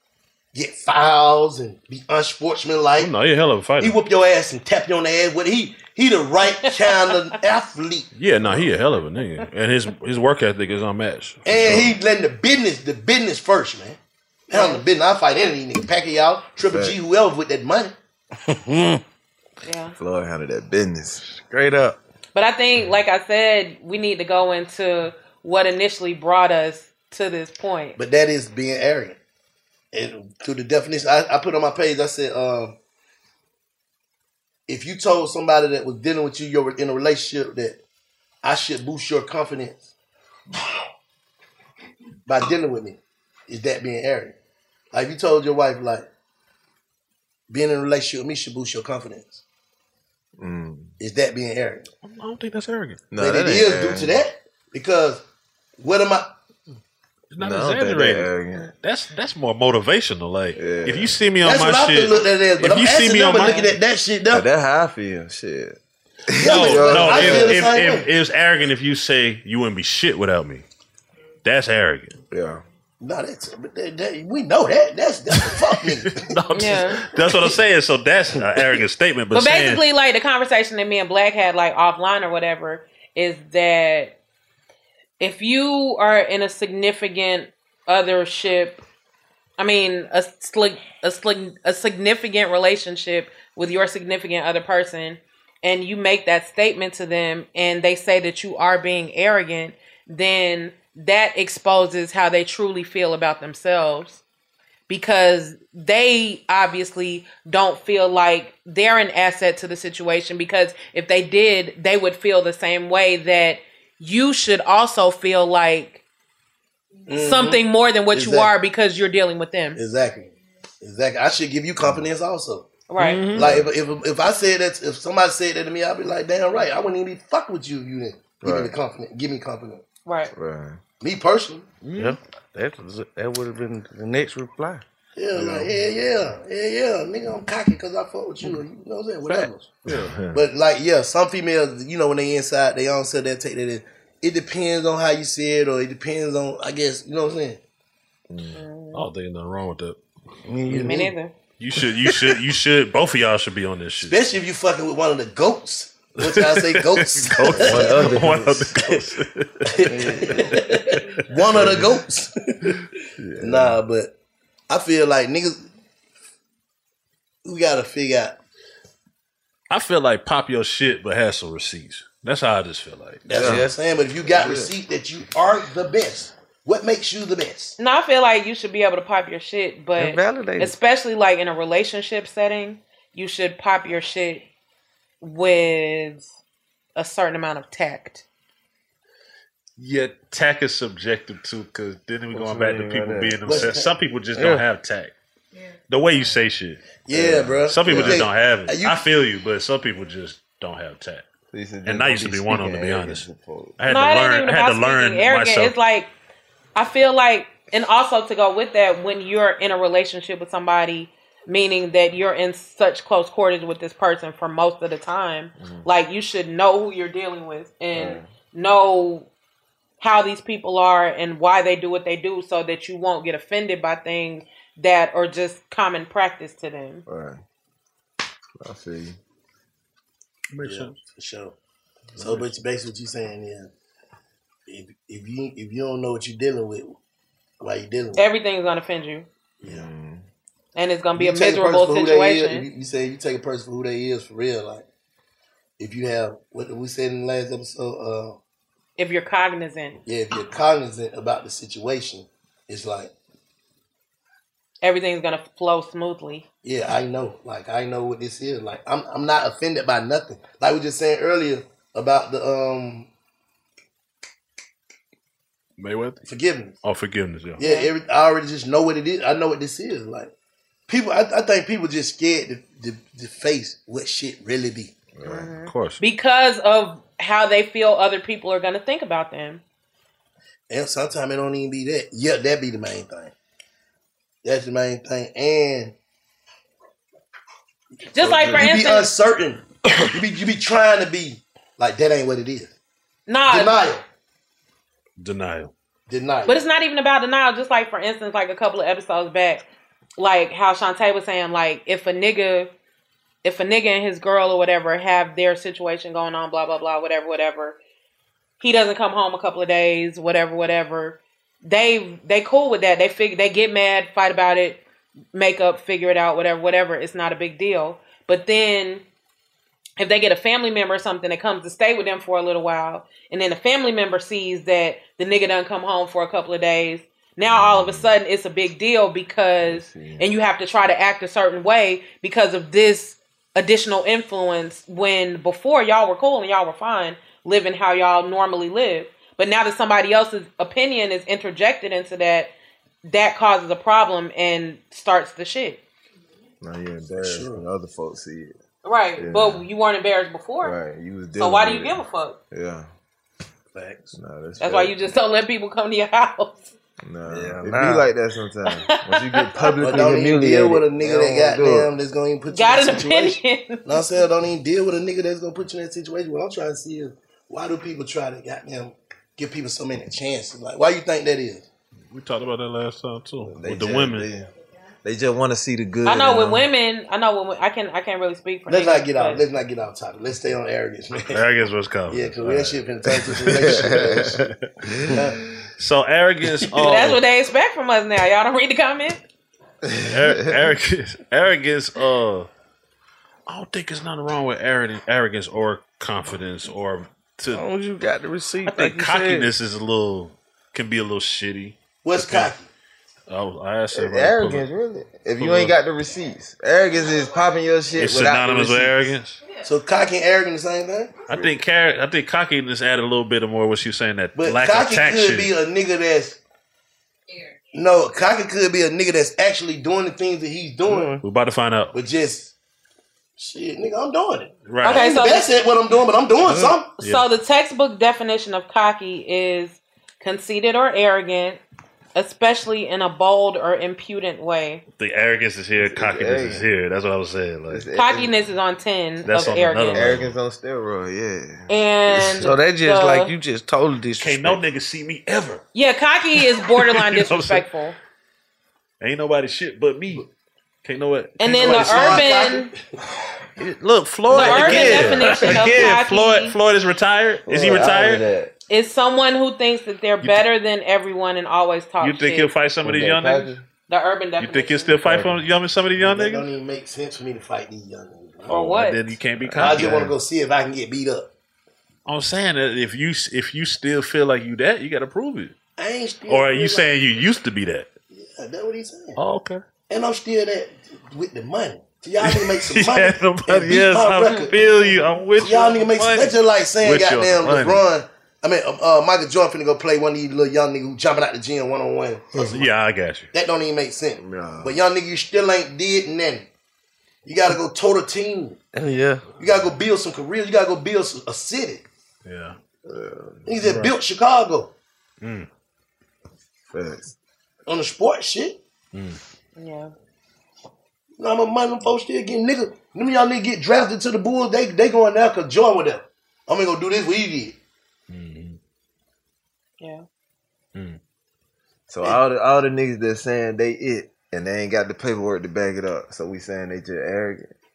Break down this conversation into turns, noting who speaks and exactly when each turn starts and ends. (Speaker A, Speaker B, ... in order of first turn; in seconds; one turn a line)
Speaker A: 0.5-3.1
Speaker B: 3.0-4.0
Speaker A: 3.8-8.1
Speaker B: 8.2-11.9
Speaker A: 11.4-17.9
Speaker C: 14.5-14.8
Speaker D: 16.7-16.9
Speaker A: 18.5-18.9
Speaker C: 19.6-19.9
Speaker D: 20.0-21.2
Speaker E: 21.3-22.0
Speaker C: 22.3-28.0
Speaker A: 28.0-29.2
Speaker A: 29.9-32.7
Speaker A: 34.7-37.8
Speaker A: 38.4-39.9
Speaker A: 42.3-44.4
Speaker A: 44.9-46.0
Speaker A: 47.5-49.4
Speaker D: 50.4-50.9
Speaker A: 51.0-51.9
Speaker B: 52.0-53.0
Speaker D: 53.1-54.2
Speaker A: 53.2-55.2
Speaker A: 55.8-56.3
Speaker B: 57.3-63.7
Speaker D: 57.4-58.7
Speaker D: 60.5-61.2
Speaker A: 61.4-64.4
Speaker C: 63.4-63.7
Speaker D: 64.3-67.7
Speaker A: 66.4-68.1
Speaker B: 66.4-70.6
Speaker B: 71.4-72.2
Speaker D: 72.3-72.6
Speaker A: 73.0-76.2
Speaker B: 75.4-79.8
Speaker C: 76.5-77.0
Speaker C: 79.3-84.1
Speaker C: 85.2-88.8
Speaker C: 89.6-104.2
Speaker C: 104.9-116.0
Speaker A: 117.1-118.5
Speaker C: 117.1-119.8
Speaker A: 119.8-122.7
Speaker D: 121.8-122.1
Speaker C: 122.9-123.3
Speaker B: 123.0-123.5
Speaker A: 123.3-129.8
Speaker D: 123.3-123.7
Speaker D: 128.4-128.8
Speaker C: 130.0-130.3
Speaker D: 130.3-130.8
Speaker A: 131.0-131.7
Speaker B: 131.8-132.2
Speaker E: 131.9-134.8
Speaker A: 135.2-139.7
Speaker D: 135.3-135.7
Speaker B: 139.3-140.1
Speaker D: 140.0-140.4
Speaker A: 140.3-147.6
Speaker D: 148.3-148.6
Speaker C: 148.5-149.0
Speaker B: 148.9-150.0
Speaker E: 150.5-151.1
Speaker C: 150.8-151.3
Speaker B: 151.6-154.2
Speaker A: 154.0-158.2
Speaker B: 156.2-160.6
Speaker D: 157.5-158.7
Speaker A: 159.7-162.7
Speaker E: 159.9-160.4
Speaker D: 161.5-161.8
Speaker D: 163.2-163.8
Speaker A: 163.4-164.1
Speaker A: 164.7-165.7
Speaker A: 167.4-168.4
Speaker B: 169.7-173.2
Speaker A: 173.2-177.8
Speaker D: 173.3-173.7
Speaker D: 174.2-174.7
Speaker C: 177.8-184.4
Speaker E: 180.0-180.7
Speaker C: 185.2-186.3
Speaker C: 186.9-188.2
Speaker B: 189.8-195.1
Speaker D: 192.3-193.8
Speaker A: 193.4-193.9
Speaker E: 194.3-194.6
Speaker B: 195.9-197.0
Speaker A: 197.1-199.0
Speaker D: 197.1-198.3
Speaker B: 197.6-201.2
Speaker D: 201.5-203.8
Speaker B: 201.8-203.2
Speaker B: 203.8-205.7
Speaker C: 203.9-206.1
Speaker C: 206.7-219.3
Speaker D: 215.6-215.8
Speaker D: 217.9-218.3
Speaker C: 220.0-227.0
Speaker D: 227.1-227.4
Speaker D: 228.6-229.2
Speaker B: 230.5-231.0
Speaker A: 230.6-231.5
Speaker A: 232.2-233.7
Speaker A: 234.7-236.9
Speaker A: 237.6-238.2
Speaker C: 238.2-239.3
Speaker A: 239.6-239.9
Speaker D: 239.7-240.2
Speaker C: 240.7-242.7
Speaker A: 241.1-244.8
Speaker A: 245.8-248.4
Speaker C: 249.0-250.0
Speaker A: 250.1-253.1
Speaker C: 254.8-256.4
Speaker A: 256.6-263.1
Speaker B: 265.8-266.2
Speaker A: 266.3-266.8
Speaker B: 266.8-267.6
Speaker A: 267.6-270.3
Speaker C: 267.6-267.9
Speaker A: 270.9-274.9
Speaker D: 275.1-275.5
Speaker C: 275.2-279.6
Speaker B: 275.7-276.0
Speaker A: 280.7-283.3
Speaker A: 284.4-285.9
Speaker C: 288.1-289.1
Speaker A: 288.1-292.7
Speaker C: 293.3-293.9
Speaker A: 293.5-294.0
Speaker B: 295.2-295.7
Speaker A: 296.1-296.6
Speaker C: 296.4-299.6
Speaker C: 300.2-302.7
Speaker C: 303.4-307.8
Speaker C: 308.6-314.8
Speaker C: 315.3-319.0
Speaker C: 320.0-342.5
Speaker D: 329.6-330.3
Speaker C: 343.0-345.8
Speaker D: 346.6-348.5
Speaker A: 347.2-347.6
Speaker C: 348.8-350.7
Speaker D: 349.2-349.7
Speaker D: 350.6-352.9
Speaker C: 351.4-352.4
Speaker A: 353.7-354.1
Speaker D: 354.1-355.0
Speaker C: 354.6-356.6
Speaker D: 357.0-361.9
Speaker E: 357.3-358.1
Speaker C: 358.8-360.0
Speaker A: 359.8-371.6
Speaker C: 362.5-364.0
Speaker B: 372.1-374.3
Speaker D: 373.4-374.5
Speaker D: 375.0-376.6
Speaker C: 376.1-379.4
Speaker A: 378.7-381.4
Speaker B: 381.3-383.8
Speaker A: 382.1-384.4
Speaker D: 383.5-385.2
Speaker A: 385.0-385.4
Speaker B: 385.8-387.2
Speaker C: 386.8-389.2
Speaker D: 389.9-390.6
Speaker B: 390.1-392.5
Speaker B: 393.5-397.6
Speaker E: 397.5-399.5
Speaker B: 398.6-402.5
Speaker A: 402.0-402.7
Speaker B: 403.3-404.7
Speaker D: 403.9-409.0
Speaker B: 405.4-405.7
Speaker B: 408.0-409.4
Speaker A: 409.6-411.2
Speaker B: 411.3-415.5
Speaker A: 414.3-416.4
Speaker A: 417.7-421.2
Speaker E: 420.9-421.2
Speaker B: 421.2-421.9
Speaker A: 421.9-422.5
Speaker A: 423.4-426.9
Speaker B: 424.6-425.0
Speaker C: 424.8-425.5
Speaker E: 426.4-426.7
Speaker C: 427.0-431.6
Speaker C: 432.1-434.8
Speaker B: 435.0-437.9
Speaker D: 435.8-436.6
Speaker D: 437.7-438.4
Speaker C: 437.9-440.0
Speaker B: 439.2-440.3
Speaker D: 439.9-442.5
Speaker C: 441.7-443.3
Speaker E: 442.4-444.6
Speaker B: 444.2-445.6
Speaker C: 445.7-447.9
Speaker B: 446.5-447.6
Speaker B: 449.0-450.2
Speaker B: 450.8-452.3
Speaker C: 451.4-452.7
Speaker A: 451.4-452.7
Speaker B: 453.6-458.2
Speaker D: 454.3-455.8
Speaker C: 454.3-456.5
Speaker D: 457.5-458.5
Speaker C: 458.7-462.5
Speaker B: 462.0-463.5
Speaker D: 462.8-463.6
Speaker C: 463.9-464.9
Speaker B: 464.4-466.5
Speaker D: 465.0-465.4
Speaker A: 466.0-468.6
Speaker C: 468.5-469.0
Speaker B: 468.5-470.1
Speaker A: 469.5-471.3
Speaker B: 472.1-475.6
Speaker A: 475.8-476.9
Speaker B: 476.3-477.9
Speaker A: 478.1-479.2
Speaker B: 479.2-479.6
Speaker A: 479.9-492.7
Speaker B: 482.2-487.8
Speaker C: 484.2-484.5
Speaker B: 492.3-493.3
Speaker A: 493.3-496.5
Speaker D: 494.2-494.8
Speaker A: 497.2-498.6
Speaker E: 498.7-499.3
Speaker A: 499.4-501.8
Speaker B: 502.2-502.6
Speaker D: 502.9-503.5
Speaker A: 503.4-504.7
Speaker B: 505.2-505.5
Speaker D: 506.7-507.1
Speaker A: 507.7-508.6
Speaker B: 508.9-509.2
Speaker C: 509.6-509.9
Speaker A: 511.2-517.6
Speaker B: 518.1-518.6
Speaker C: 519.8-520.0
Speaker D: 521.9-527.5